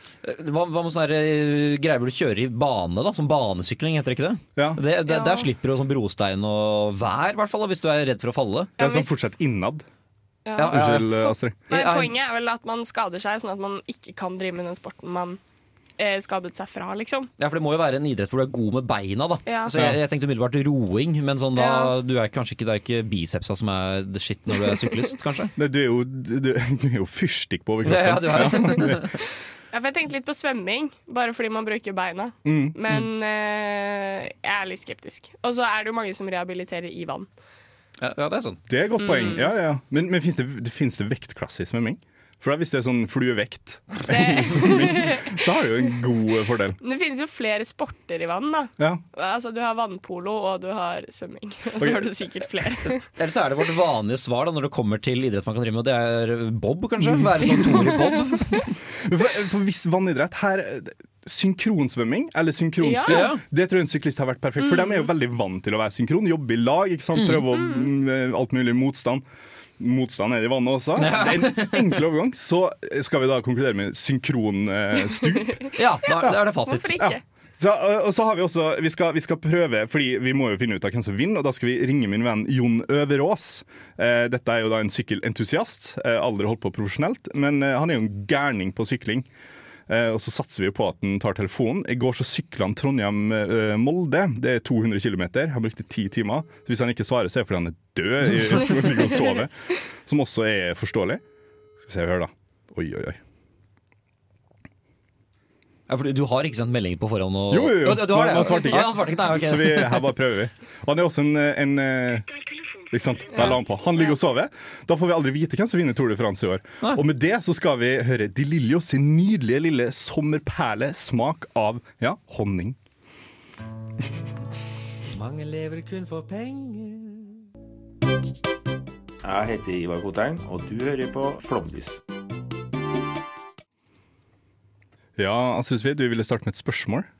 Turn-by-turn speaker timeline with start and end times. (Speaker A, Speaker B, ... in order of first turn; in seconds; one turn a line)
Speaker A: 0.2-8.7
Speaker B: 5.0-5.5
Speaker C: 8.8-9.8
Speaker B: 8.8-9.2
Speaker B: 10.4-15.4
Speaker A: 10.6-11.1
Speaker C: 10.7-11.5
Speaker A: 11.7-12.1
Speaker B: 16.0-17.3
Speaker A: 17.4-25.5
Speaker B: 19.4-19.7
Speaker C: 19.7-20.0
Speaker B: 21.6-21.9
Speaker C: 25.6-29.1
Speaker A: 27.8-29.1
Speaker B: 29.7-37.3
Speaker C: 32.4-32.8
Speaker A: 38.0-38.6
Speaker C: 38.7-46.8
Speaker B: 39.0-39.4
Speaker B: 44.1-45.4
Speaker B: 46.8-53.0
Speaker C: 51.8-52.1
Speaker A: 53.0-58.7
Speaker C: 59.0-69.2
Speaker B: 62.8-63.2
Speaker A: 63.0-63.4
Speaker B: 64.6-65.1
Speaker A: 67.2-67.4
Speaker C: 69.8-75.7
Speaker A: 71.0-72.0
Speaker A: 75.8-77.0
Speaker B: 76.6-77.2
Speaker C: 77.0-89.3
Speaker C: 89.9-101.2
Speaker C: 101.8-103.2
Speaker A: 105.9-110.0
Speaker C: 107.5-112.3
Speaker C: 112.8-122.8
Speaker D: 125.2-127.3
Speaker E: 129.2-131.9
Speaker C: 135.2-137.1